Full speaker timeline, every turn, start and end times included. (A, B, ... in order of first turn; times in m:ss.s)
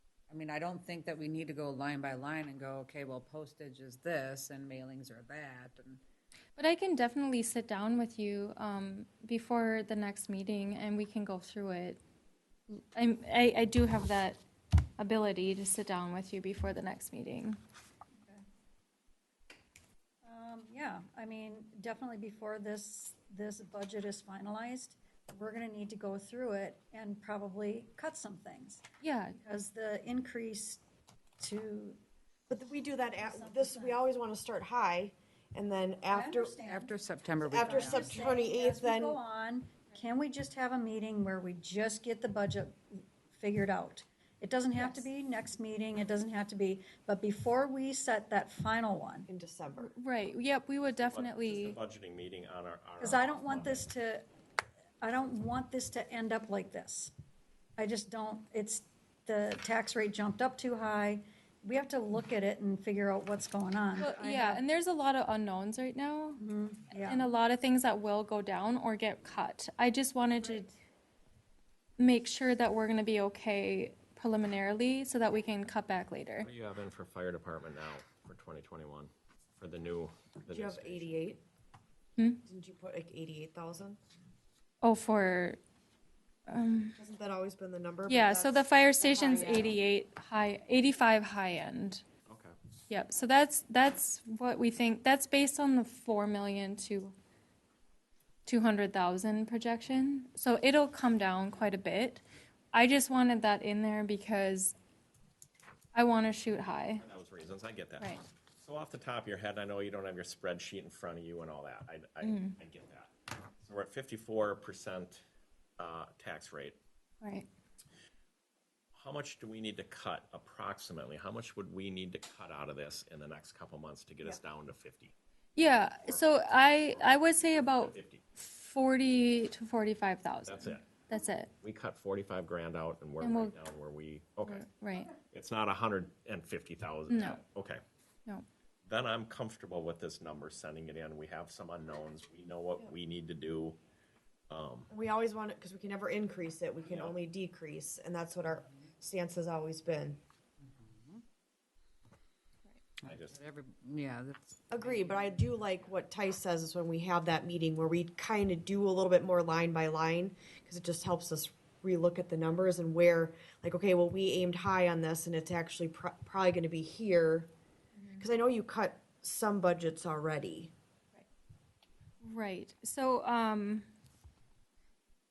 0:00.3-0:06.0 A
0:06.6-0:12.0 B
0:12.7-0:14.4 B
0:15.0-0:17.6 B
0:20.2-0:30.8 C
0:29.0-0:29.4 B
0:31.4-0:32.0 C
0:32.5-0:36.6 D
0:33.2-0:34.0 C
0:36.1-0:49.3 C
0:36.6-0:38.2 A
0:37.5-0:39.2 D
0:44.8-0:45.0 B
0:49.3-0:49.9 D
0:49.8-0:51.8 B
0:51.0-0:53.9 E
0:53.0-0:54.2 C
0:55.0-0:57.1 C
0:57.8-1:04.6 C
1:04.0-1:06.4 B
1:06.4-1:07.2 C
1:07.0-1:10.7 B
1:12.0-1:16.5 B
1:16.4-1:21.2 E
1:20.5-1:21.4 D
1:22.2-1:22.4 B
1:22.5-1:24.0 D
1:24.8-1:25.6 B
1:26.5-1:27.0 B
1:27.0-1:29.8 D
1:28.1-1:32.0 B
1:32.3-1:32.6 E
1:32.9-1:37.2 B
1:38.5-1:44.8 B
1:45.9-1:47.0 B
1:47.0-1:55.2 E
1:52.2-1:52.6 B
1:55.8-1:56.8 E
1:57.2-1:57.5 B
1:58.9-2:05.2 E
2:05.6-2:11.5 B
2:06.0-2:06.3 E
2:06.9-2:08.2 E
2:10.4-2:10.9 E
2:11.6-2:14.6 E
2:13.2-2:13.6 B
2:14.4-2:15.1 B
2:15.3-2:17.8 E
2:17.1-2:17.4 B
2:18.8-2:23.8 E
2:24.5-2:24.9 E
2:24.9-2:30.2 D
2:26.8-2:27.2 E
2:30.6-2:31.2 A
2:33.0-2:35.4 A
2:33.0-2:33.4 E
2:34.7-2:47.5 D
2:48.0-2:48.2 B
2:48.2-2:50.7 D
2:52.2-2:53.9 B